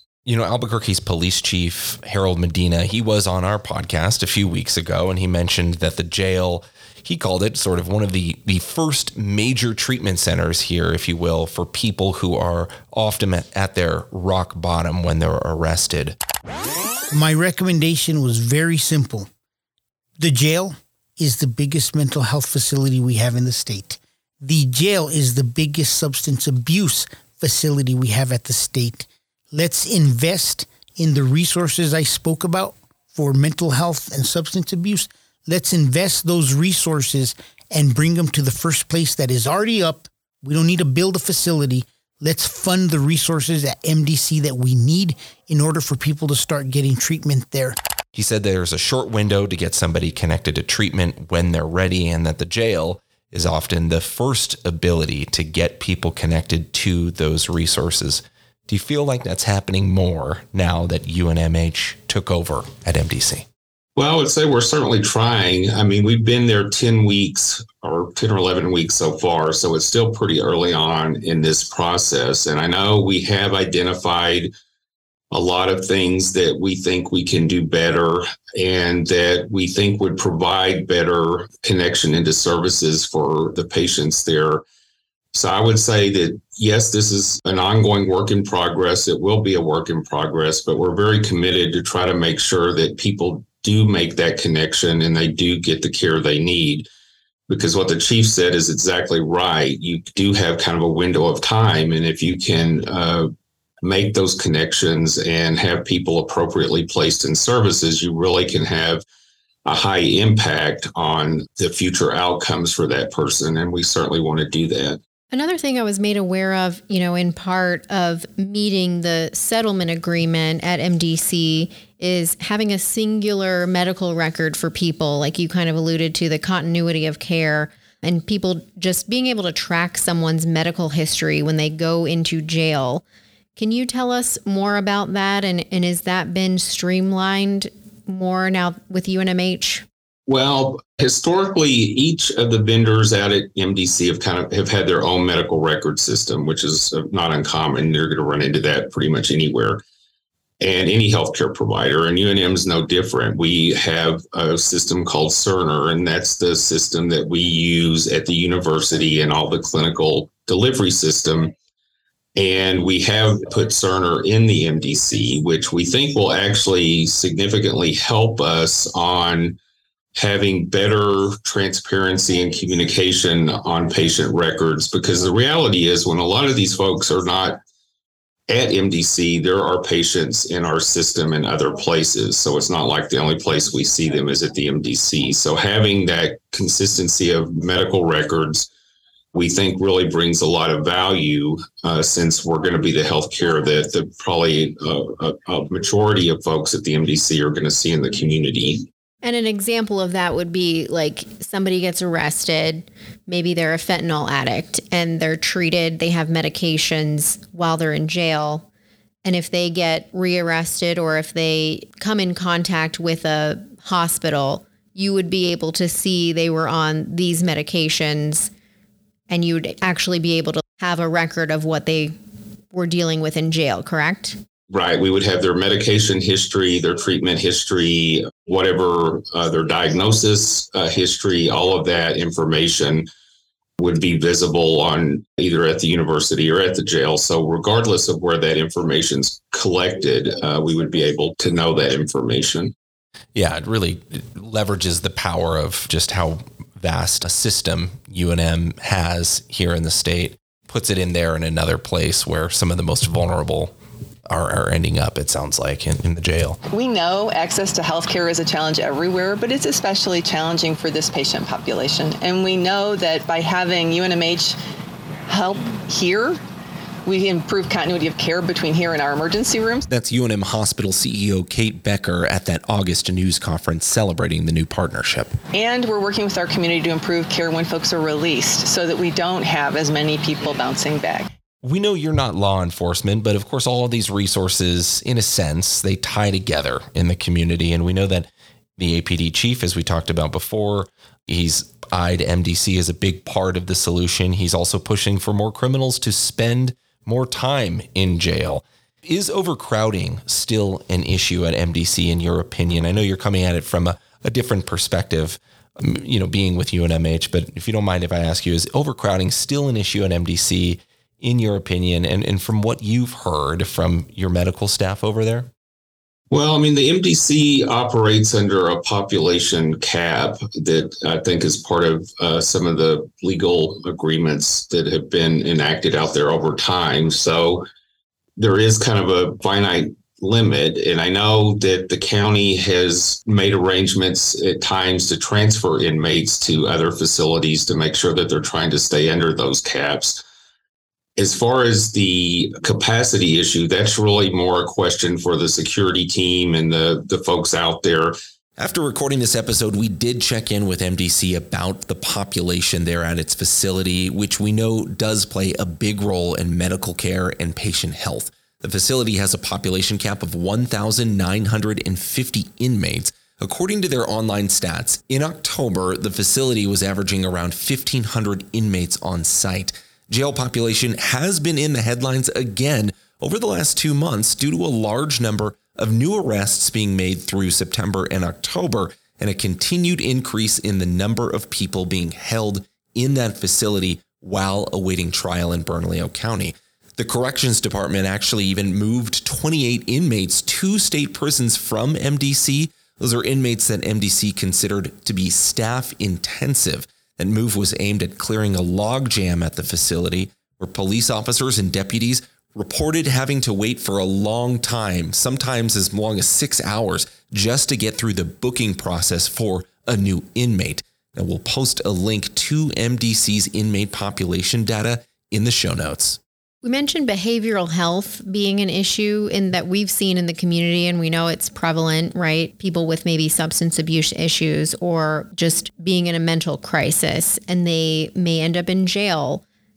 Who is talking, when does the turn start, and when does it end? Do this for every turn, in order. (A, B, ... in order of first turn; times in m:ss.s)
0:00.2-0:16.2 A
0:17.1-0:19.3 B
0:20.2-0:47.8 B
0:48.2-1:03.5 A
1:04.0-1:14.5 C
1:15.3-1:24.6 C
1:25.3-1:36.9 C
1:37.5-1:43.3 C
1:43.8-1:49.0 C
1:49.6-1:55.0 C
1:55.3-2:13.0 D
2:13.6-2:19.8 D
2:20.3-2:29.8 C
2:30.6-2:41.5 C
2:42.4-2:49.6 C
2:50.1-2:57.6 C
2:58.5-3:08.7 C
3:09.3-3:18.9 C
3:19.2-3:28.6 D
3:29.2-3:38.5 D
3:39.3-3:42.1 D
3:42.7-3:44.4 D
3:44.7-3:53.1 C
3:53.8-4:02.7 C
4:03.4-4:13.7 A
4:14.3-4:16.6 A
4:16.7-4:24.6 E
4:25.3-4:26.4 E
4:27.1-4:29.9 E
4:29.9-4:35.4 A
4:35.5-4:41.3 E
4:41.6-5:15.5 A
5:16.3-5:27.6 C
5:28.4-5:40.2 C
5:41.2-5:48.1 C
5:48.6-6:56.2 A
6:56.6-7:09.4 D